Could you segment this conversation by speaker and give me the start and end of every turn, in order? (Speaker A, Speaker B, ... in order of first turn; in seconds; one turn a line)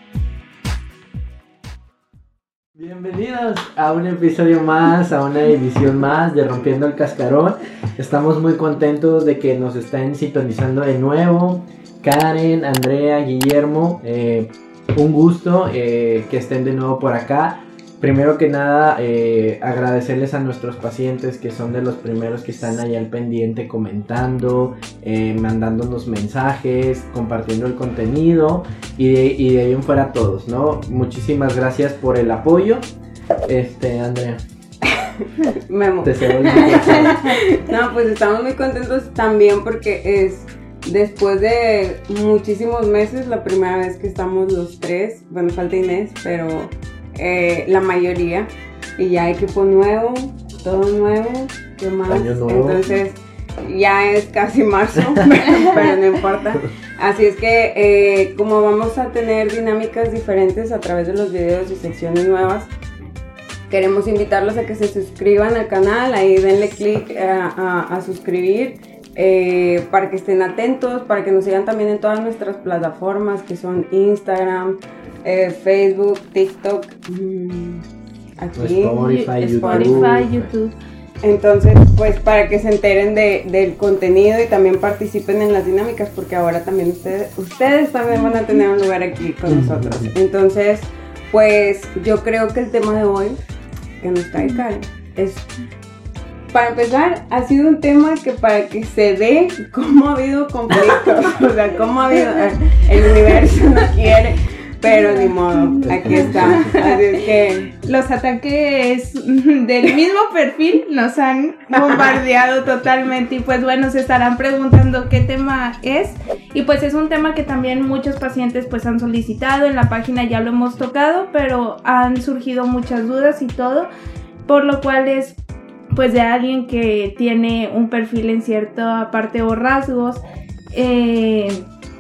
Speaker A: 2.8-32.9
Speaker A: 33.5-34.4
Speaker B: 34.9-62.7
Speaker A: 36.0-37.4
Speaker A: 52.1-52.9
Speaker B: 63.7-77.8
Speaker B: 78.4-80.2
Speaker A: 78.6-80.5
Speaker C: 79.0-80.8
Speaker B: 81.2-93.4
Speaker C: 88.1-88.6
Speaker A: 89.5-90.1
Speaker B: 94.0-95.5
Speaker B: 96.5-107.7
Speaker C: 104.9-107.2
Speaker A: 105.8-106.8
Speaker C: 107.8-123.9
Speaker C: 124.5-125.4
Speaker C: 125.9-130.2
Speaker C: 130.7-131.7